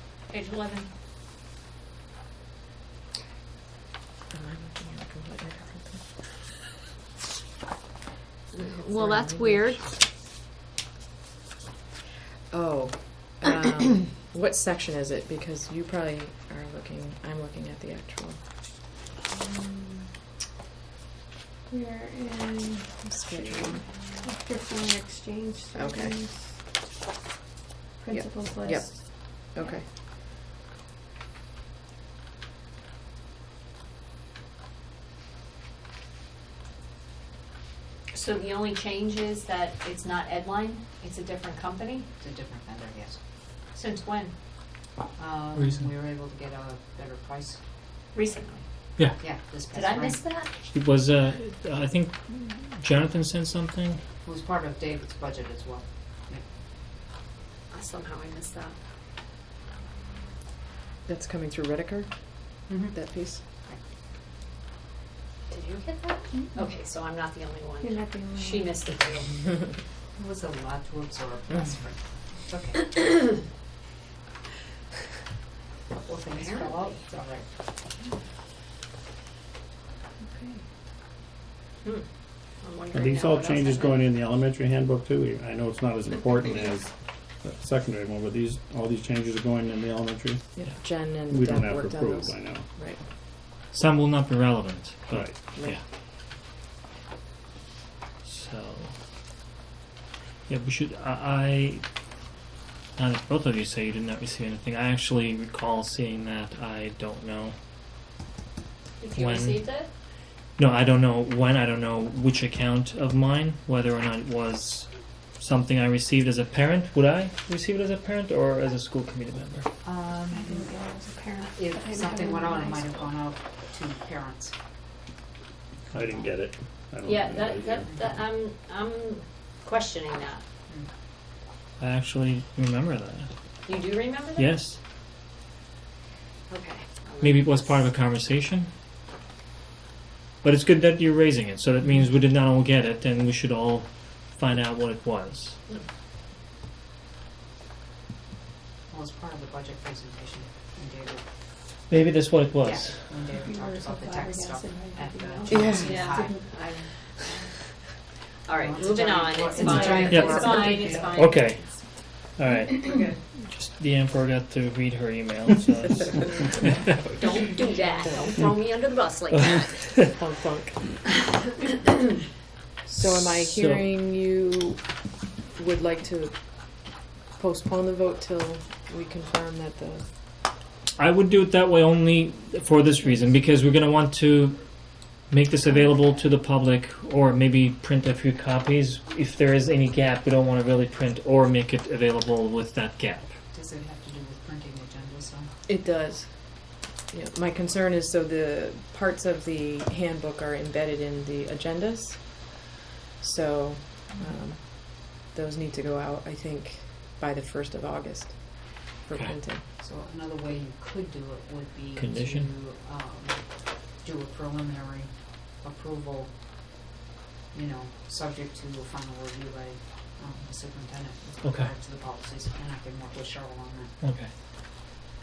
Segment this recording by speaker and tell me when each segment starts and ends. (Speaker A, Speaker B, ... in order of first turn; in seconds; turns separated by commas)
Speaker A: 0.3-0.9, Speaker B: 4.3-6.0, Speaker A: 8.5-9.9, Speaker B: 8.6-9.7, Speaker B: 12.5-18.4, Speaker C: 21.7-23.0, Speaker B: 23.0-23.8, Speaker C: 24.2-26.4, Speaker B: 25.7-26.2, Speaker C: 28.0-29.7, Speaker B: 28.1-29.8, Speaker A: 38.1-42.1, Speaker D: 42.2-43.2, Speaker A: 43.7-44.4, Speaker D: 45.1-47.6, Speaker E: 45.5-45.9, Speaker A: 48.1-49.0, Speaker D: 49.2-50.2, Speaker A: 49.7-50.5, Speaker E: 50.7-54.0, Speaker D: 54.2-56.5, Speaker A: 57.7-58.8, Speaker B: 61.0-63.4, Speaker D: 62.7-62.9, Speaker A: 65.5-69.4, Speaker C: 66.3-66.6, Speaker C: 67.8-68.9, Speaker D: 70.2-72.8, Speaker D: 76.0-77.5, Speaker A: 76.3-77.0, Speaker A: 81.8-84.1, Speaker F: 82.9-90.6, Speaker B: 90.5-93.0, Speaker F: 91.3-92.7, Speaker E: 93.7-95.8, Speaker F: 95.1-95.3, Speaker E: 98.2-98.9, Speaker E: 100.5-101.8, Speaker E: 103.0-107.5, Speaker A: 109.0-109.9, Speaker E: 109.2-109.6, Speaker E: 110.6-119.7, Speaker D: 119.8-120.7, Speaker C: 120.3-123.1, Speaker D: 121.5-124.5, Speaker F: 125.9-127.9, Speaker D: 125.9-126.2, Speaker A: 127.0-130.4, Speaker E: 131.8-133.3, Speaker A: 133.7-134.6, Speaker E: 134.3-134.8, Speaker A: 136.5-137.9, Speaker E: 137.2-138.7, Speaker E: 140.4-145.6, Speaker D: 148.9-151.3, Speaker E: 151.9-153.3, Speaker D: 152.6-156.5, Speaker C: 153.4-156.4, Speaker B: 155.5-155.9, Speaker A: 155.8-157.6, Speaker A: 158.4-161.8, Speaker D: 158.5-161.2, Speaker C: 159.6-160.9, Speaker E: 159.7-166.7, Speaker A: 162.9-163.1, Speaker B: 166.0-168.4, Speaker A: 167.1-169.8, Speaker E: 169.3-170.1, Speaker B: 169.9-171.0, Speaker B: 172.8-174.9, Speaker E: 172.9-173.8, Speaker B: 175.5-180.1, Speaker E: 180.9-184.6, Speaker E: 185.3-193.3, Speaker D: 193.5-195.5, Speaker B: 195.7-202.6, Speaker B: 203.2-209.6, Speaker D: 209.8-216.3, Speaker E: 211.9-212.5, Speaker D: 217.5-223.9, Speaker E: 221.4-221.7, Speaker E: 224.0-224.3